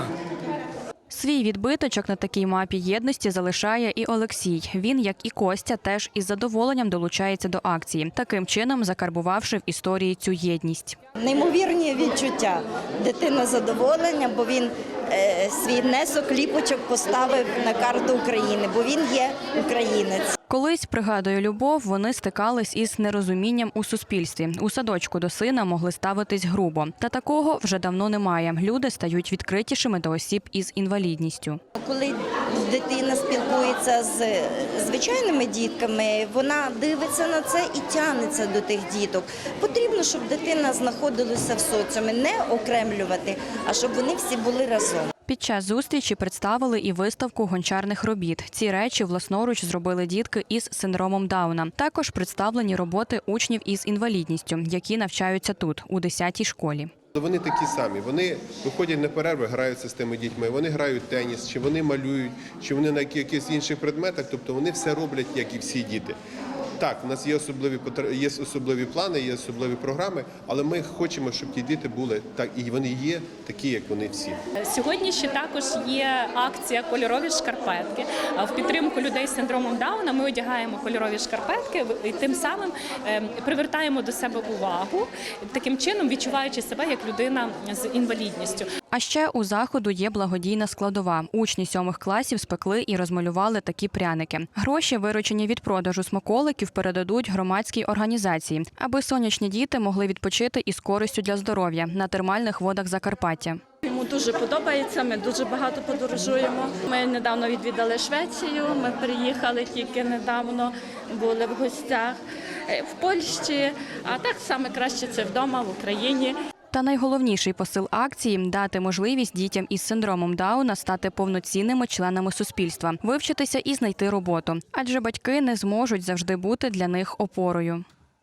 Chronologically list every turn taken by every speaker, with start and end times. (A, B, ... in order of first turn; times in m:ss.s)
0:01.1-0:11.0 A
0:11.2-0:20.4 B
0:20.5-0:31.6 A
0:31.8-0:45.1 B
0:45.3-0:56.9 A
0:57.1-1:06.2 C
1:06.8-1:14.4 C
1:14.6-1:28.7 D
1:28.9-1:43.6 A
1:43.8-1:56.4 E
1:56.7-2:07.8 A